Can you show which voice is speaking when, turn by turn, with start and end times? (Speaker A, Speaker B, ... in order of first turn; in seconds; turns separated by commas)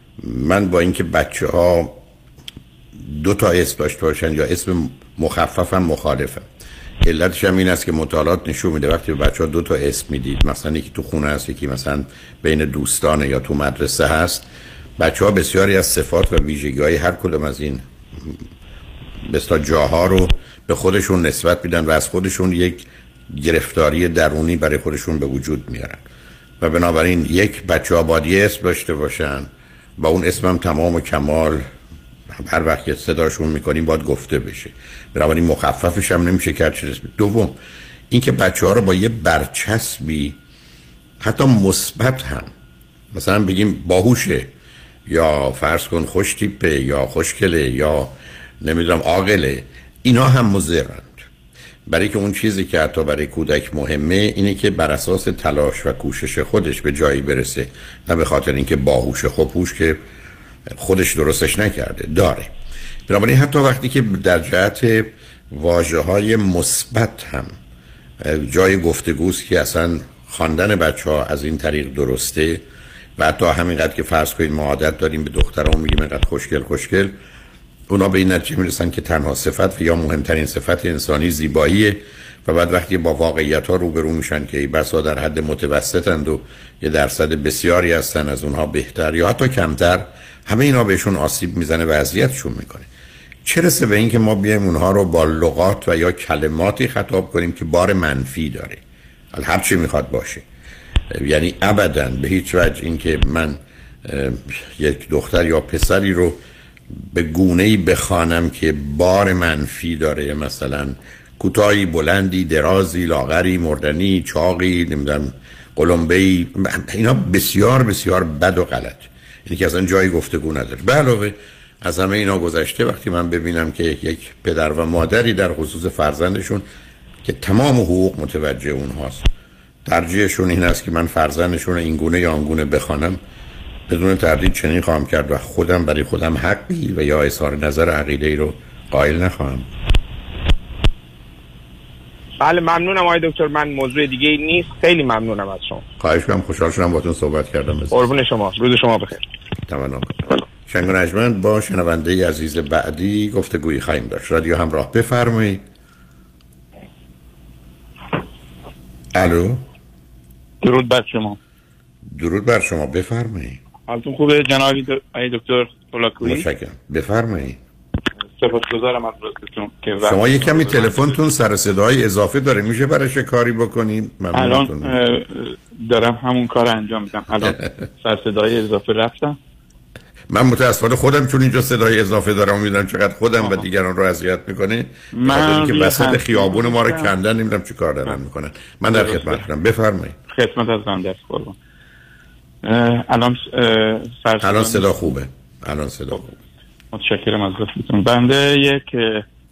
Speaker A: 0.2-2.0, Speaker A: 3.0-6.5, Speaker A: 7.0-14.5, Speaker A: 15.0-18.4, Speaker A: 19.3-26.0, Speaker A: 26.6-31.7, Speaker A: 32.3-37.5, Speaker A: 38.1-40.4, Speaker A: 41.2-42.5, Speaker A: 43.1-44.5, Speaker A: 45.1-51.3, Speaker A: 51.9-60.0, Speaker A: 60.8-62.5, Speaker A: 63.1-67.6, Speaker A: 68.2-72.6, Speaker A: 73.2-77.1, Speaker A: 77.9-92.9, Speaker A: 93.5-98.8, Speaker A: 99.3-100.4, Speaker A: 101.1-106.4, Speaker A: 107.1-126.7, Speaker A: 127.2-129.3, Speaker A: 129.9-133.2, Speaker A: 133.9-139.7, Speaker B: 142.4-145.8, Speaker A: 146.0-148.1, Speaker C: 147.9-149.1, Speaker B: 148.1-148.5, Speaker A: 149.7-155.6, Speaker A: 159.2-159.6, Speaker C: 160.6-161.4, Speaker A: 162.1-163.6, Speaker C: 163.9-166.5, Speaker A: 166.2-167.6, Speaker C: 168.4-171.2, Speaker A: 170.0-175.0, Speaker C: 174.3-179.4, Speaker A: 177.4-177.7, Speaker A: 180.3-190.2, Speaker C: 183.4-183.7, Speaker C: 185.2-187.2, Speaker C: 188.9-189.4, Speaker C: 190.3-191.6, Speaker C: 192.6-195.1, Speaker A: 194.4-196.4, Speaker C: 196.9-199.2